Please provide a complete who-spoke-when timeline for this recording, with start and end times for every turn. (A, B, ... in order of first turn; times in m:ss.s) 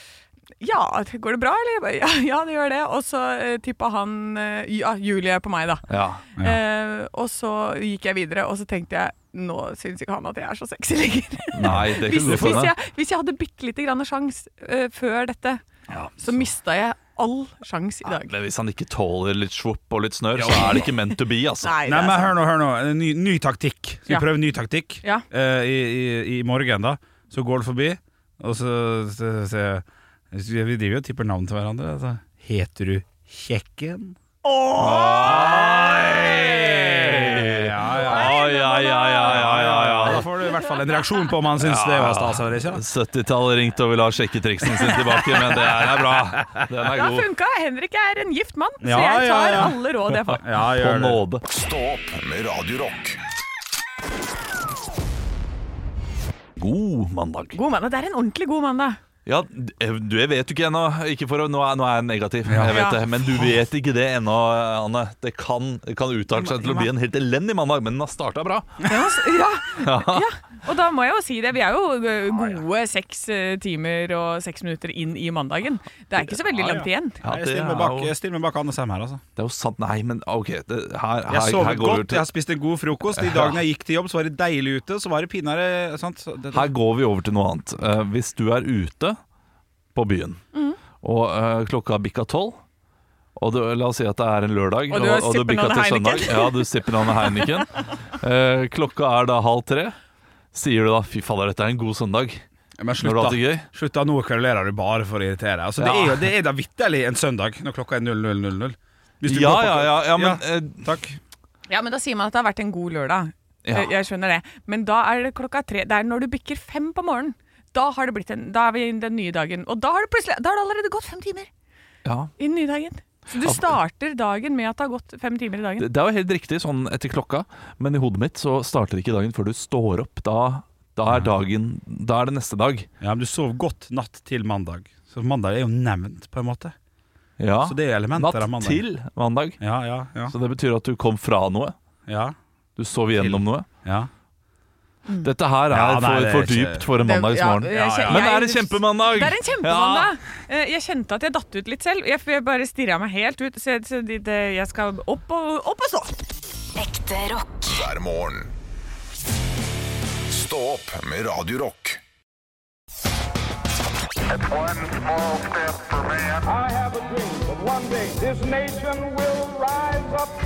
0:00.6-0:05.8 A
0:05.9-0:06.2 B
0:06.4-0:15.6 A
0:11.5-0:12.7 B
0:15.9-0:16.4 C
0:16.2-0:18.3 A
0:18.0-0:21.8 B
0:20.4-0:20.7 C
0:20.5-0:20.9 A
0:21.6-0:22.3 A
0:21.8-0:34.2 C
0:34.4-0:36.6 A
0:34.8-0:40.3 B
0:35.0-0:38.6 C
0:37.9-0:39.6 A
0:39.2-0:42.8 C
0:40.5-0:40.8 A
0:41.6-0:47.3 B
0:46.8-0:50.4 A
0:48.8-0:49.8 C
0:50.3-0:51.4 B
0:50.4-0:51.2 C
0:51.5-0:53.2 D
0:56.6-0:57.6 B
0:57.5-0:59.0 A
0:59.2-1:08.9 B
1:02.5-1:02.8 C
1:02.7-1:03.5 A
1:06.5-1:06.8 A
1:08.8-1:17.2 A
1:09.8-1:10.2 B
1:16.5-1:19.2 C
1:17.2-1:18.1 B
1:19.4-1:22.2 B
1:21.3-1:26.7 C
1:23.1-1:23.6 B
1:26.5-1:29.2 B
1:29.9-1:30.4 B
1:31.0-1:32.6 B
1:33.4-1:40.0 B
1:34.9-1:37.6 A
1:40.5-1:42.4 B
1:42.8-1:51.2 C
1:43.0-1:43.7 B
1:45.8-1:46.2 B
1:49.2-1:50.8 B
1:51.7-2:01.5 A
1:53.6-1:53.9 B
2:02.0-2:02.3 B
2:02.4-2:05.9 A
2:03.4-2:03.7 B
2:05.8-2:12.9 B
2:13.0-2:16.7 C
2:17.4-2:19.6 B
2:17.6-2:18.8 C
2:19.6-2:20.3 C
2:20.3-2:21.7 B
2:22.1-2:22.3 C
2:22.8-2:23.6 B
2:23.2-2:24.1 C
2:25.2-2:30.1 B
2:25.7-2:26.9 C
2:27.0-2:36.2 A
2:27.7-2:28.3 C
2:36.7-2:38.5 D
2:40.2-2:42.0 D
2:44.3-2:50.3 E